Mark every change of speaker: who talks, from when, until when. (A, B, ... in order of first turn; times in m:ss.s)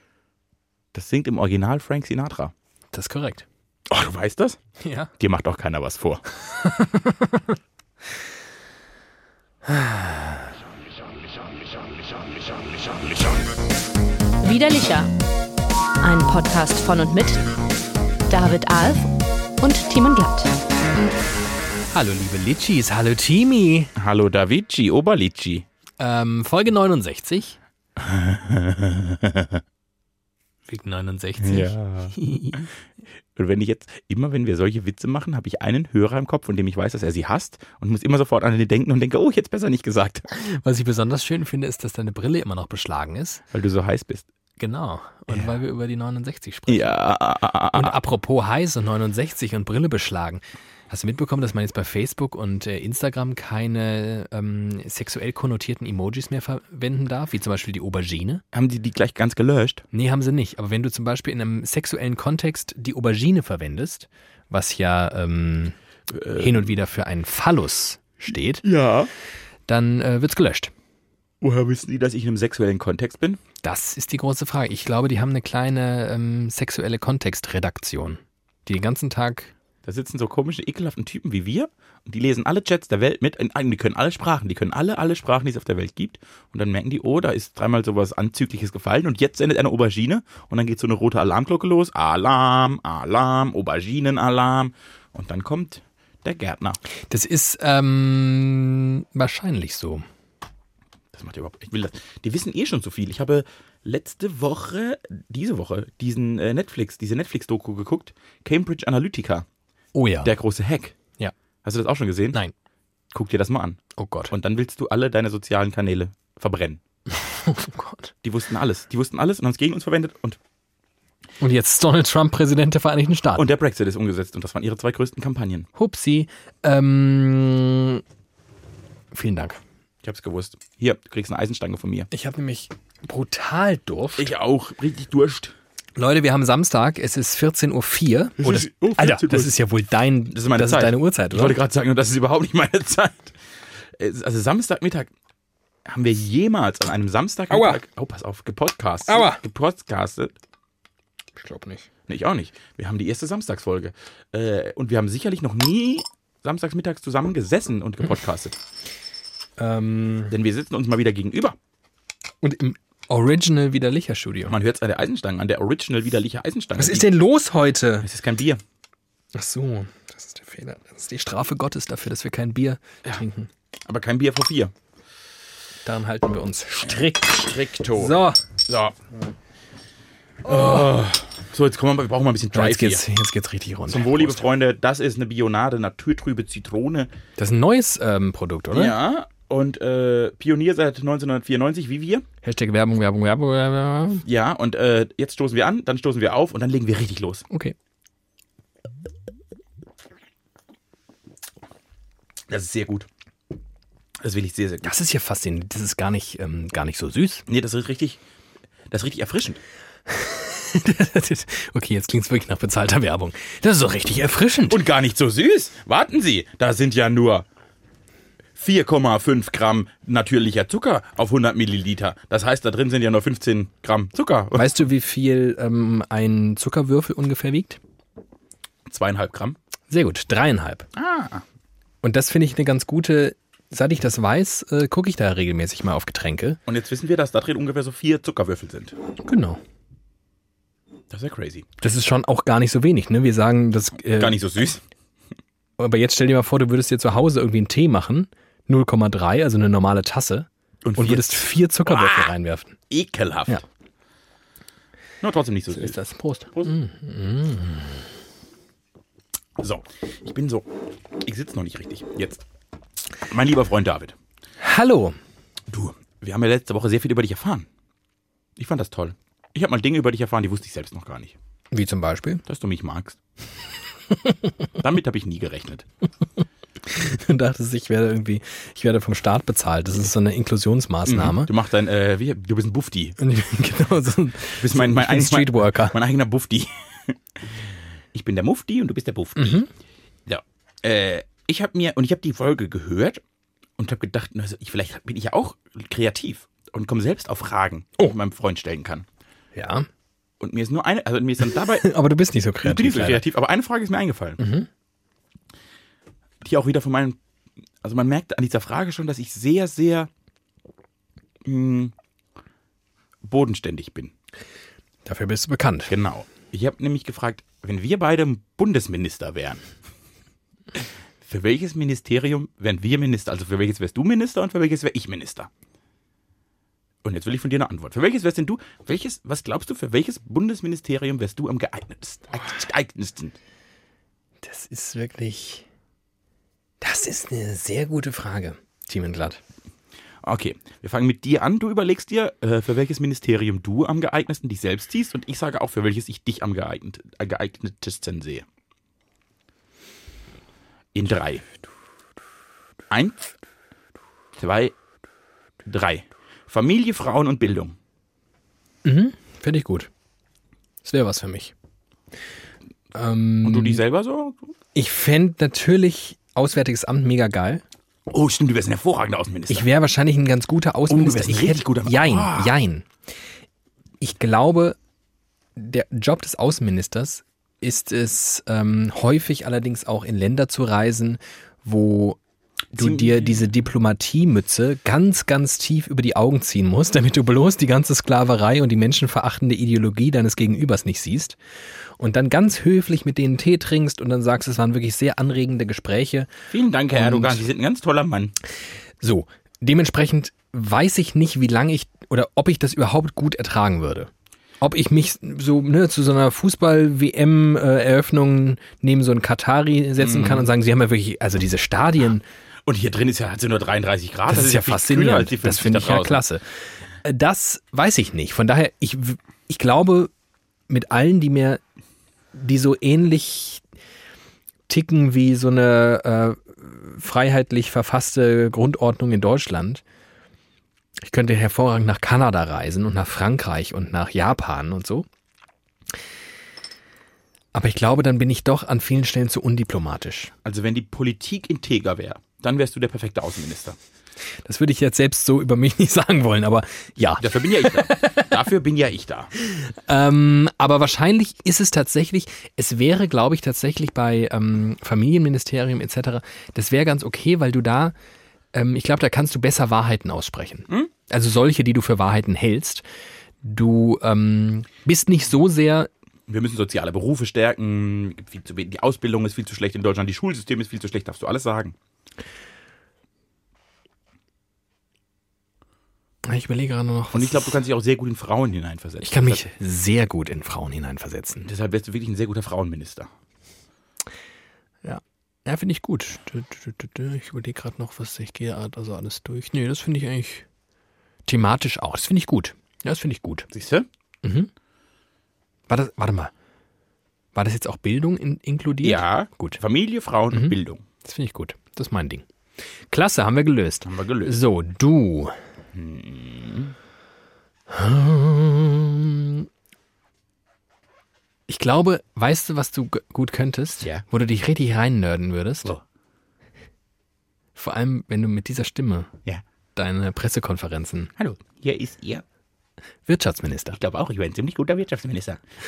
0:00.9-0:02.5 A
0:02.9-0:03.4 B
0:03.9-0:04.6 A
0:04.8-0:05.1 B
0:05.2-0:06.2 A
0:06.5-0:07.6 B
0:09.6-0:10.5 B
0:14.4-0:15.1 C
0:16.0-0:17.5 C
0:18.3-0:20.5 C
0:21.9-0:23.9 B
0:24.0-0:25.6 A
0:26.0-0:27.6 B
0:28.0-0:29.6 A
0:30.6-0:32.7 B
0:31.4-0:32.7 A
0:33.4-0:40.2 A
0:40.3-0:43.4 B
0:43.5-0:44.3 A
0:44.6-0:46.9 B
0:46.7-0:48.0 A
0:47.7-0:58.4 B
0:58.5-0:59.8 A
0:59.9-1:05.8 B
1:06.1-1:06.6 A
1:06.4-1:08.6 B
1:08.6-1:09.1 A
1:09.7-1:10.7 B
1:11.4-1:13.4 A
1:13.6-1:19.5 B
1:19.8-1:36.8 A
1:37.1-1:40.0 B
1:41.1-1:49.4 A
1:49.9-1:50.3 B
1:50.2-1:51.0 A
1:51.6-1:52.4 A
1:53.1-1:56.8 A
1:54.0-1:54.3 B
1:57.1-1:58.1 B
1:58.2-2:00.4 A
2:01.4-2:03.5 B
2:03.4-2:05.7 A
2:05.8-2:08.0 B
2:09.1-2:09.6 B
2:10.0-2:12.1 A
2:12.1-2:14.3 B
2:14.2-2:15.5 A
2:16.0-2:21.6 B
2:18.4-2:19.5 A
2:20.3-2:23.3 A
2:23.9-2:25.1 A
2:25.8-2:30.4 A
2:27.5-2:27.8 B
2:29.1-2:29.4 B
2:31.4-2:31.9 B
2:32.1-2:38.6 A
2:39.6-2:40.3 B
2:40.3-2:41.6 A
2:42.4-2:44.6 B
2:44.5-2:47.1 A
2:46.8-2:48.0 B
2:48.0-2:48.6 A
2:49.3-2:53.5 B
2:53.8-2:54.7 A
2:55.8-2:58.4 B
2:56.8-2:59.0 A
3:00.4-3:03.0 A
3:02.5-3:04.4 B
3:03.9-3:07.1 A
3:07.4-3:08.9 B
3:08.7-3:12.2 A
3:12.4-3:14.2 B
3:14.2-3:17.4 A
3:17.5-3:17.7 B
3:22.5-3:23.1 A
3:24.2-3:24.9 A
3:24.8-3:27.4 B
3:27.5-3:28.2 A
3:28.9-3:29.6 A
3:30.1-3:34.8 B
3:34.7-3:37.4 A
3:38.6-3:44.7 A
3:44.5-3:47.8 B
3:48.8-3:49.6 A
3:49.9-3:50.9 B
3:50.9-3:51.4 A
3:52.0-3:56.6 B
3:56.7-3:59.0 A
3:59.2-3:59.6 B
4:01.1-4:01.6 A
4:01.8-4:04.4 B
4:04.1-4:04.8 A
4:05.8-4:12.8 B
4:10.8-4:12.3 A
4:12.9-4:13.6 A
4:15.2-4:16.0 A
4:15.7-4:18.0 B
4:19.6-4:20.7 A
4:21.2-4:22.4 A
4:23.2-4:24.1 A
4:24.6-4:25.2 B
4:25.7-4:27.7 A
4:28.6-4:31.3 A
4:31.7-4:32.4 B
4:32.4-4:33.2 A
4:34.8-4:35.9 A
4:36.8-4:41.5 B
4:41.0-4:43.2 A
4:43.2-4:46.0 B
4:44.6-4:47.4 A
4:48.1-4:49.6 A
4:49.4-4:49.7 B
4:50.3-4:53.2 A
4:53.8-4:59.0 A
4:59.5-4:59.9 B
5:00.4-5:01.9 A
5:01.4-5:03.2 B
5:02.6-5:04.4 A
5:04.4-5:04.7 B
5:06.4-5:07.2 A
5:07.8-5:10.1 A
5:11.4-5:11.9 A
5:13.2-5:14.1 A
5:15.0-5:15.9 B
5:15.9-5:19.6 A
5:20.8-5:25.5 A
5:27.0-5:33.3 A
5:34.4-5:35.6 B
5:36.8-5:39.4 B
5:40.2-5:48.4 A
5:50.9-5:51.4 A
5:52.9-5:53.3 A
5:54.4-5:54.7 A
5:55.6-5:57.8 A
5:58.8-5:59.9 B
6:00.8-6:01.5 B
6:02.9-6:03.8 B
6:03.4-6:04.5 A
6:04.7-6:07.6 B
6:08.1-6:09.7 A
6:09.5-6:12.9 B
6:10.9-6:12.5 A
6:14.0-6:14.8 B
6:15.6-6:22.2 B
6:22.7-6:23.4 A
6:22.7-6:31.4 B
6:32.0-6:36.3 B
6:36.5-6:38.3 A
6:36.9-6:37.4 B
6:39.0-6:52.2 B
6:50.0-6:50.5 A
6:52.7-6:56.2 A
6:54.3-6:56.4 B
6:57.0-7:00.1 B
7:00.7-7:01.6 B
7:02.3-7:03.6 B
7:04.7-7:09.8 B
7:11.0-7:15.0 B
7:17.5-7:20.3 B
7:20.4-7:23.8 A
7:24.4-7:28.3 B
7:27.2-7:29.3 A
7:29.4-7:37.9 B
7:38.5-7:42.8 B
7:43.4-7:45.9 B
7:46.3-7:51.7 A
7:56.2-7:57.5 B
7:57.1-7:59.4 A
7:59.0-8:01.5 B
8:01.4-8:03.1 A
8:04.8-8:10.4 B
8:11.3-8:13.5 B
8:13.5-8:13.9 A
8:14.2-8:14.5 B
8:15.7-8:16.3 B
8:17.3-8:19.6 B
8:18.8-8:20.8 A
8:20.3-8:22.2 B
8:22.9-8:25.4 B
8:23.8-8:24.4 A
8:25.7-8:26.7 A
8:27.7-8:29.5 B
8:31.5-8:35.7 B
8:37.6-8:39.2 B
8:39.8-8:41.1 B
8:41.2-8:42.2 A
8:43.1-8:43.8 B
8:43.7-8:45.4 A